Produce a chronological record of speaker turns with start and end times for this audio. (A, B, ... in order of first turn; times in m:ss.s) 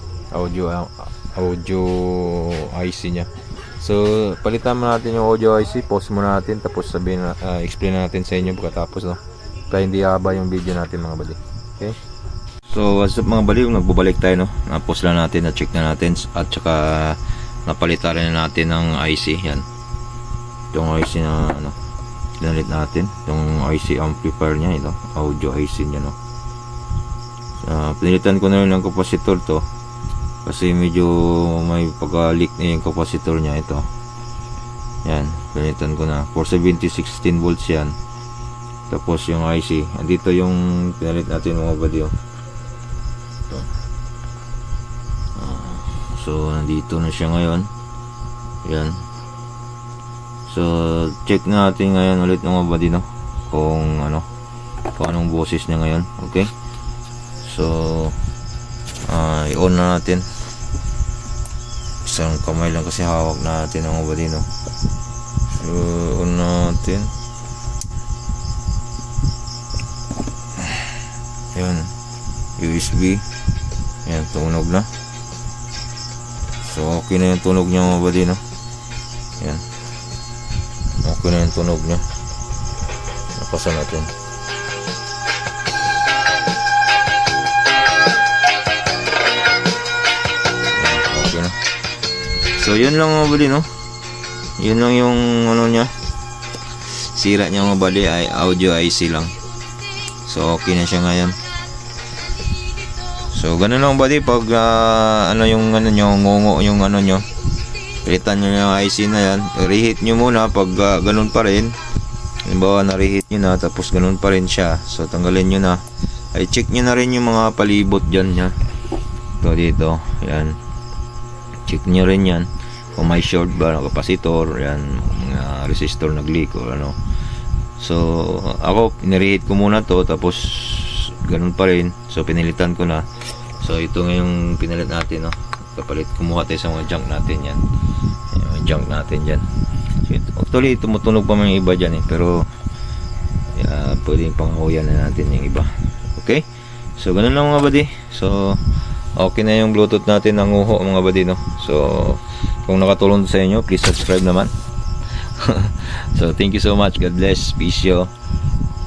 0:00.3-0:12.0 A
0:12.7-0:19.7 A
0:20.7-0:21.8 A
0:22.4-0:26.2 A
0:27.6-0:29.7 A
0:30.4-0:33.9 A
0:35.0-0:38.0 A
0:38.9-0:42.2 A
0:45.4-0:47.7 A
0:48.6-0:49.0 A
0:50.5-0:54.3 A
0:55.0-0:56.5 A
0:57.4-0:58.2 A
0:59.0-1:00.3 A
1:02.0-1:04.5 A
1:05.5-1:07.1 A
1:11.5-1:11.9 A
1:12.6-1:13.3 A
1:14.0-1:14.9 A
1:16.6-1:18.4 A
1:19.4-1:19.6 A
1:20.9-1:22.1 A
1:23.3-1:24.1 A
1:30.7-1:31.6 A
1:32.5-1:33.7 A
1:34.6-1:35.9 A
1:36.8-1:39.4 A
1:40.2-1:41.4 A
1:43.2-1:47.3 A
1:47.9-1:51.8 A
1:52.4-1:58.6 A
1:59.4-2:00.6 A
2:01.6-2:07.0 A
2:07.8-2:17.7 A
2:18.3-2:22.5 A
2:23.5-2:34.5 A
2:35.1-2:38.1 A